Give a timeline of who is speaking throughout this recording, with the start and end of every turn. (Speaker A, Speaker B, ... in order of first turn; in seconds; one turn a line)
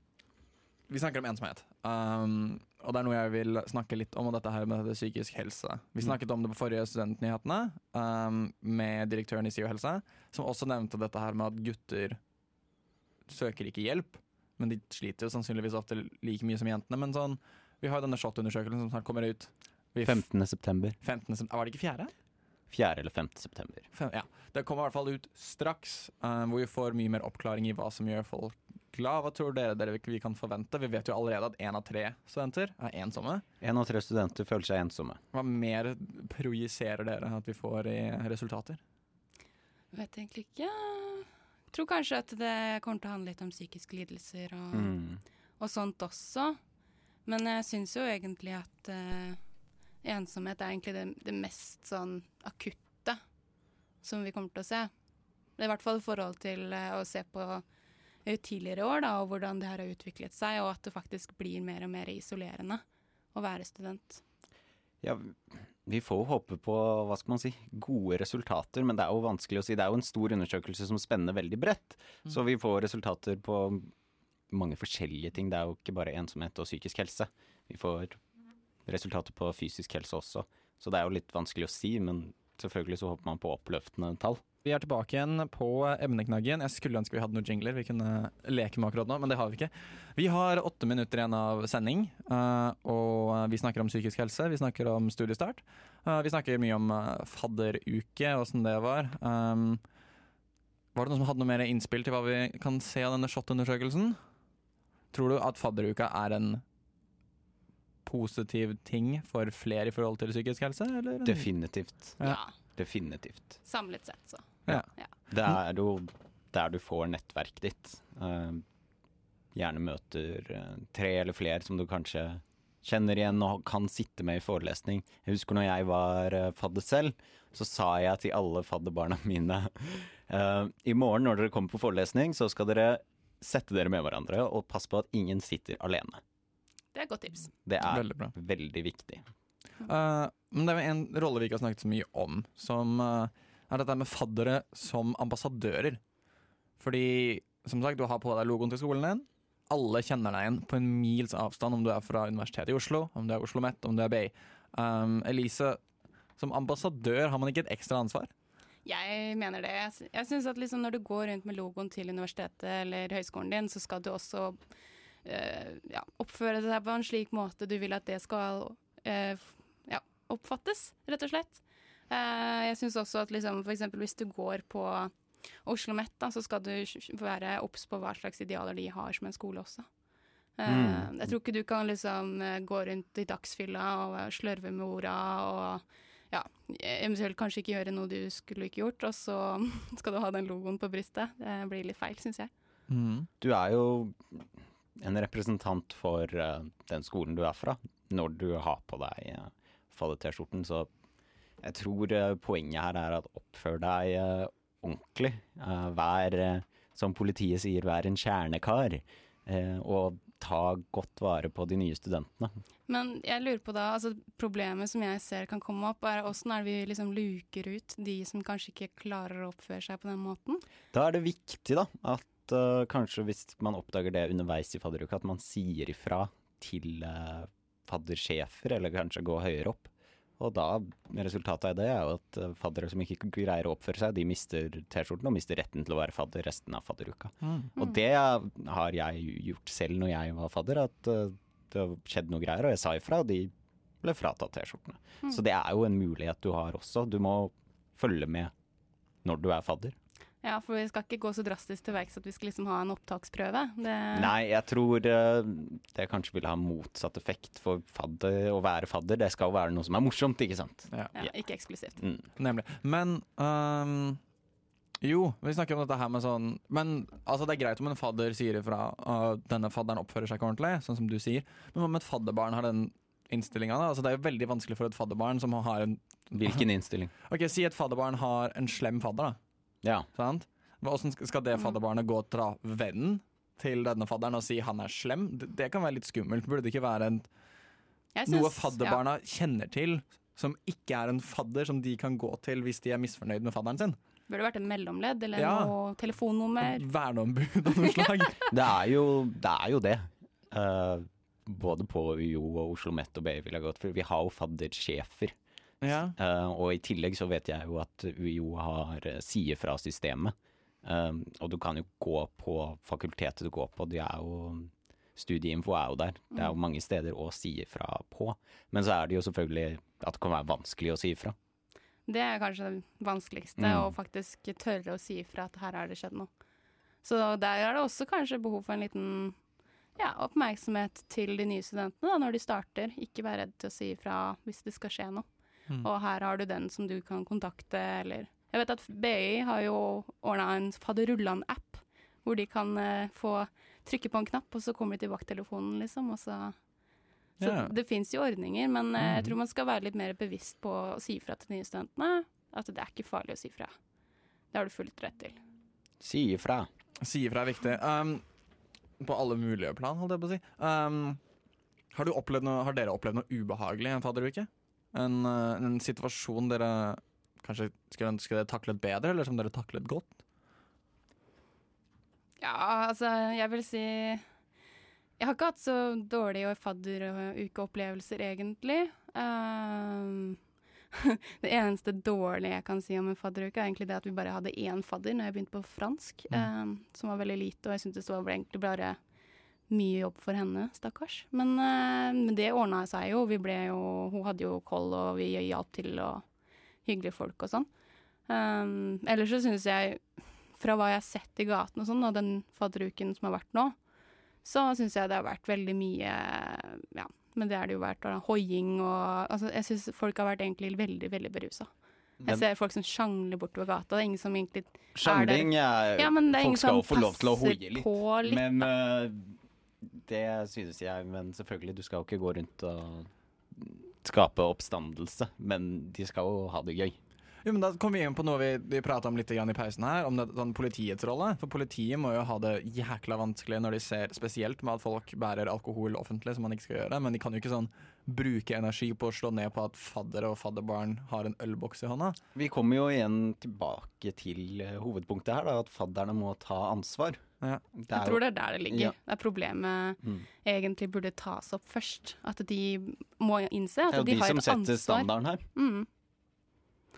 Speaker A: 0.9-12.2
Speaker A: 13.3-20.2
Speaker B: 20.0-21.0
Speaker A: 21.0-22.1
Speaker B: 22.7-23.9
Speaker A: 23.9-33.4
Speaker B: 33.6-35.2
Speaker A: 35.3-38.8
Speaker C: 39.9-44.9
Speaker B: 44.7-45.2
Speaker C: 45.6-46.6
Speaker C: 47.3-49.4
Speaker C: 50.0-53.2
Speaker C: 54.0-54.9
Speaker C: 55.6-57.6
Speaker C: 58.2-62.8
Speaker C: 63.3-64.2
Speaker B: 65.0-73.9
Speaker B: 74.5-78.2
Speaker B: 78.9-84.4
Speaker A: 84.7-99.8
Speaker A: 101.0-104.2
Speaker A: 105.1-106.6
Speaker A: 108.0-111.5
Speaker B: 111.2-112.2
Speaker C: 112.2-112.5
Speaker B: 112.8-113.6
Speaker C: 113.6-114.5
Speaker B: 114.7-118.6
Speaker B: 119.5-136.2
Speaker C: 136.9-137.5
Speaker B: 137.7-139.2
Speaker A: 137.8-138.3
Speaker A: 139.8-146.0
Speaker A: 146.8-155.8
Speaker A: 156.4-158.3
Speaker C: 158.8-164.6
Speaker C: 165.2-175.1
Speaker C: 175.7-179.9
Speaker C: 180.6-192.5
Speaker B: 180.7-181.1
Speaker A: 192.9-193.3
Speaker B: 193.4-200.9
Speaker B: 201.6-212.5
Speaker C: 212.9-220.6
Speaker B: 220.9-243.5
Speaker A: 237.4-237.7
Speaker B: 244.0-248.5
Speaker B: 249.2-250.0
Speaker C: 250.4-254.3
Speaker B: 254.1-261.3
Speaker C: 261.2-262.0
Speaker B: 262.0-262.3
Speaker A: 262.4-264.2
Speaker A: 265.0-276.6
Speaker B: 276.3-277.1
Speaker A: 277.3-279.4
Speaker A: 280.2-287.3
Speaker C: 288.1-289.0
Speaker A: 288.3-294.0
Speaker C: 294.3-296.9
Speaker A: 295.4-295.7
Speaker A: 296.6-298.5
Speaker B: 298.5-305.4
Speaker A: 305.8-306.2
Speaker B: 306.2-321.4
Speaker C: 322.1-326.3
Speaker B: 323.6-323.9
Speaker C: 327.0-329.4
Speaker C: 330.0-335.3
Speaker C: 335.8-346.6
Speaker A: 347.4-347.7
Speaker C: 347.4-353.7
Speaker C: 354.5-355.4
Speaker B: 356.0-356.7
Speaker A: 357.0-358.2
Speaker A: 359.0-361.2
Speaker A: 361.9-370.1
Speaker C: 372.4-374.2
Speaker C: 375.2-380.4
Speaker C: 380.9-389.0
Speaker C: 389.7-396.2
Speaker C: 396.9-397.7
Speaker C: 398.3-403.8
Speaker C: 404.4-411.7
Speaker C: 412.3-418.7
Speaker B: 414.9-427.0
Speaker A: 427.4-442.2
Speaker B: 442.4-447.2
Speaker B: 447.8-448.9
Speaker C: 447.9-455.9
Speaker B: 453.9-455.4